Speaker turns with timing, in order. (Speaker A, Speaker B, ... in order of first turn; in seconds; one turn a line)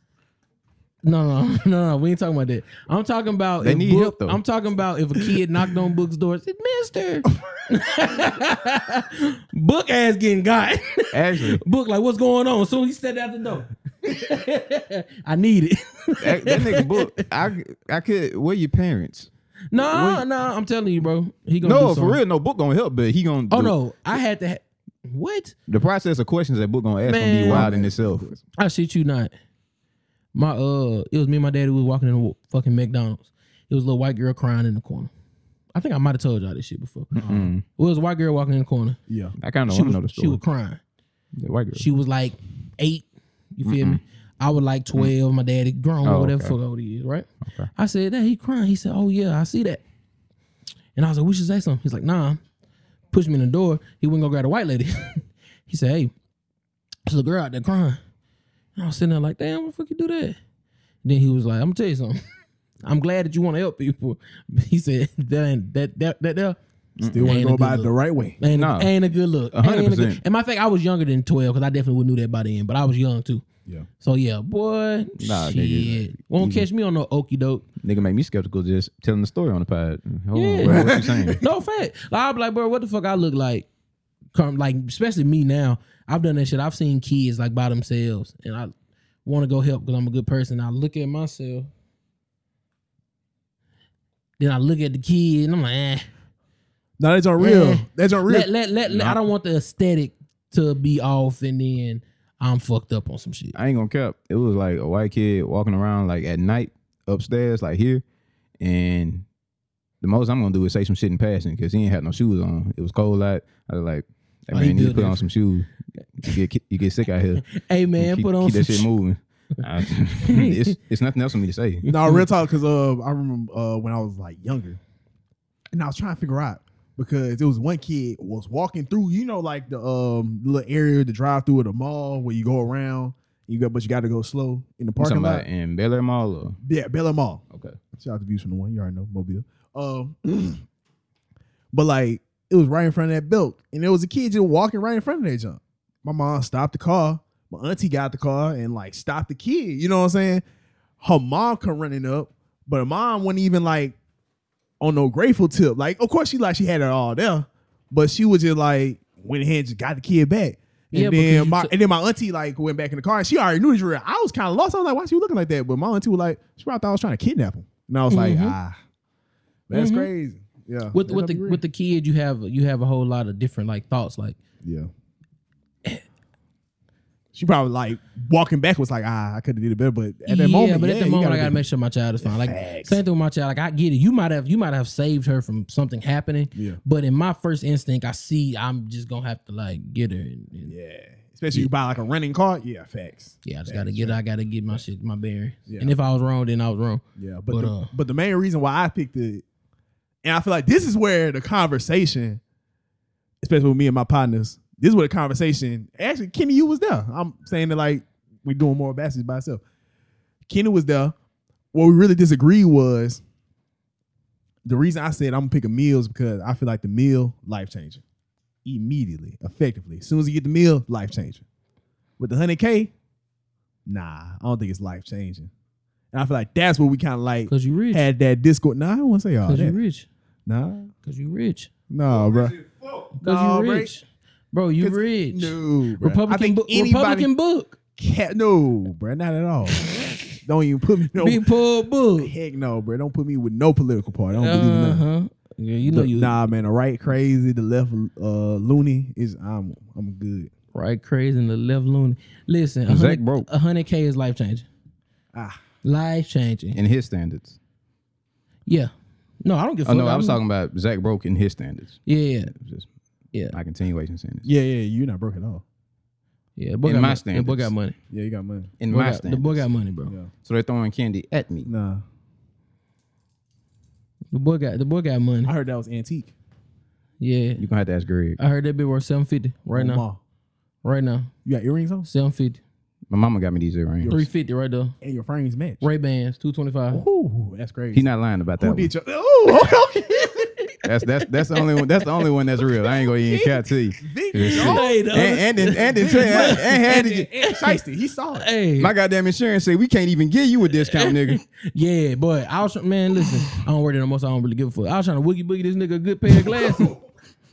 Speaker A: 1.0-17.2
Speaker B: 3.6-4.4
Speaker B: 11.1-11.6
Speaker B: 16.2-19.3
Speaker A: 19.7-22.2
Speaker C: 19.7-20.2
Speaker B: 21.6-23.7
Speaker A: 23.5-25.5
Speaker B: 25.7-28.3
Speaker A: 27.0-27.7
Speaker C: 27.5-28.4
Speaker A: 28.6-29.3
Speaker A: 30.3-35.1
Speaker A: 35.7-37.1
Speaker B: 37.1-37.6
Speaker C: 37.2-37.5
Speaker A: 37.7-39.0
Speaker C: 39.1-39.4
Speaker B: 39.4-40.4
Speaker A: 39.7-40.8
Speaker B: 41.3-41.9
Speaker A: 41.8-49.8
Speaker B: 43.6-44.0
Speaker B: 46.0-46.6
Speaker B: 47.4-47.7
Speaker A: 51.0-52.4
Speaker A: 53.1-56.1
Speaker A: 57.0-58.0
Speaker A: 58.8-60.4
Speaker A: 61.0-62.2
Speaker A: 62.8-66.6
Speaker B: 67.0-67.3
Speaker C: 67.0-68.4
Speaker A: 67.2-73.4
Speaker B: 68.5-68.9
Speaker B: 69.5-70.2
Speaker A: 74.0-77.6
Speaker B: 75.2-76.6
Speaker B: 77.8-81.4
Speaker A: 80.3-83.7
Speaker C: 80.6-81.4
Speaker A: 84.3-88.7
Speaker A: 89.2-91.7
Speaker A: 94.4-96.1
Speaker C: 97.0-99.1
Speaker A: 97.4-103.5
Speaker B: 103.5-108.0
Speaker B: 108.6-109.2
Speaker B: 110.0-117.4
Speaker A: 114.5-115.2
Speaker A: 117.4-118.9
Speaker B: 118.0-121.8
Speaker A: 120.2-120.7
Speaker A: 121.8-122.2
Speaker C: 121.9-124.8
Speaker C: 125.7-135.4
Speaker B: 135.0-136.6
Speaker C: 136.6-137.4
Speaker B: 137.5-137.8
Speaker C: 137.9-140.6
Speaker C: 141.7-150.4
Speaker C: 151.0-153.9
Speaker C: 154.8-168.8
Speaker A: 160.9-161.7
Speaker A: 168.1-168.5
Speaker C: 169.7-171.6
Speaker A: 169.7-170.1
Speaker A: 170.9-174.4
Speaker C: 174.6-174.9
Speaker C: 177.3-181.6
Speaker A: 180.3-190.7
Speaker C: 182.2-183.0
Speaker C: 186.5-186.8
Speaker C: 190.7-194.2
Speaker A: 193.4-197.9
Speaker C: 195.7-195.9
Speaker C: 197.2-199.4
Speaker C: 200.2-202.4
Speaker C: 203.4-209.6
Speaker C: 210.5-211.1
Speaker C: 211.7-213.2
Speaker C: 214.6-218.0
Speaker C: 218.6-221.4
Speaker C: 222.2-222.9
Speaker C: 223.8-225.5
Speaker C: 226.1-229.8
Speaker A: 227.5-228.0
Speaker A: 229.4-230.1
Speaker C: 230.4-230.9
Speaker A: 231.0-231.7
Speaker C: 231.9-232.6
Speaker B: 232.1-233.1
Speaker A: 233.2-237.7
Speaker C: 233.2-233.9
Speaker C: 234.8-237.3
Speaker C: 237.9-241.4
Speaker A: 239.7-240.1
Speaker A: 241.2-242.3
Speaker C: 242.2-245.0
Speaker A: 244.4-246.3
Speaker C: 245.8-250.5
Speaker A: 250.7-254.7
Speaker B: 252.9-253.5
Speaker C: 255.3-255.6
Speaker A: 255.8-256.8
Speaker B: 256.7-257.6
Speaker A: 258.6-258.9
Speaker A: 259.4-260.4
Speaker B: 259.8-262.0
Speaker A: 262.1-262.5
Speaker B: 262.5-262.9
Speaker B: 263.5-264.5
Speaker C: 264.4-265.6
Speaker A: 266.6-267.9
Speaker B: 266.8-267.7
Speaker C: 268.1-268.7
Speaker B: 268.8-269.6
Speaker A: 268.9-270.1
Speaker B: 270.4-271.7
Speaker C: 271.6-272.0
Speaker A: 274.3-275.5
Speaker C: 275.4-276.3
Speaker A: 277.2-277.6
Speaker B: 277.6-278.4
Speaker A: 278.4-280.0
Speaker C: 279.7-280.2
Speaker A: 280.8-281.3
Speaker C: 281.4-282.1
Speaker A: 282.0-282.6
Speaker B: 283.1-284.1
Speaker C: 284.0-284.3
Speaker A: 284.1-284.9
Speaker C: 285.0-285.9
Speaker A: 285.8-287.0
Speaker C: 286.9-288.1
Speaker B: 287.9-288.9
Speaker C: 288.6-290.5
Speaker A: 289.5-290.8
Speaker B: 290.8-297.3
Speaker C: 293.2-295.0
Speaker A: 294.4-296.7
Speaker C: 295.6-298.5
Speaker A: 298.3-298.9
Speaker B: 298.8-301.4
Speaker A: 300.9-306.9
Speaker C: 306.4-307.0